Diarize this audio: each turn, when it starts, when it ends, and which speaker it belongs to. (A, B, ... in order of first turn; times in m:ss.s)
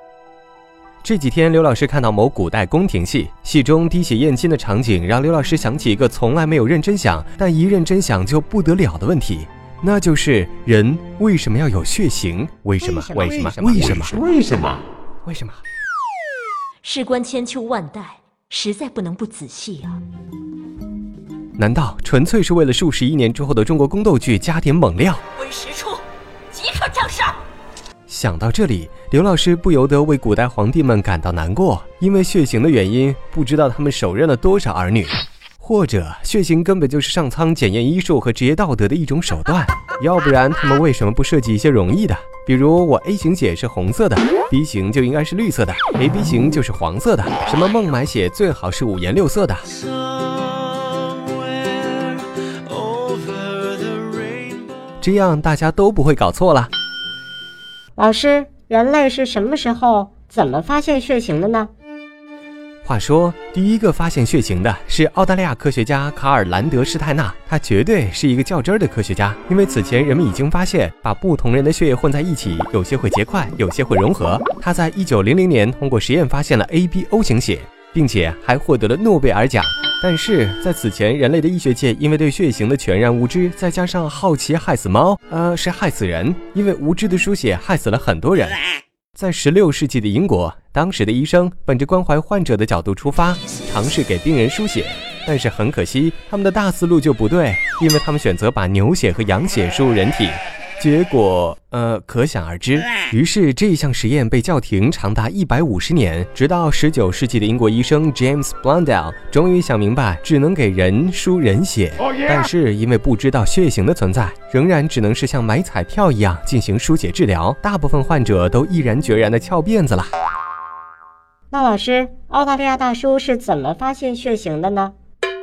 0:01.0-0:14.2 A
0:12.8-0:14.2 B
0:14.2-0:14.8 C
0:15.2-0:15.6 A
0:16.8-0:20.0 D
0:21.6-0:25.2 A
0:25.4-0:27.4 D
0:28.1-0:49.7 A
0:51.7-0:52.0 C
0:52.8-0:54.3 C
0:55.0-0:56.7 A
0:58.0-1:01.7 B
1:02.8-1:28.6 A
1:29.1-2:00.1 A
2:01.5-2:04.9 B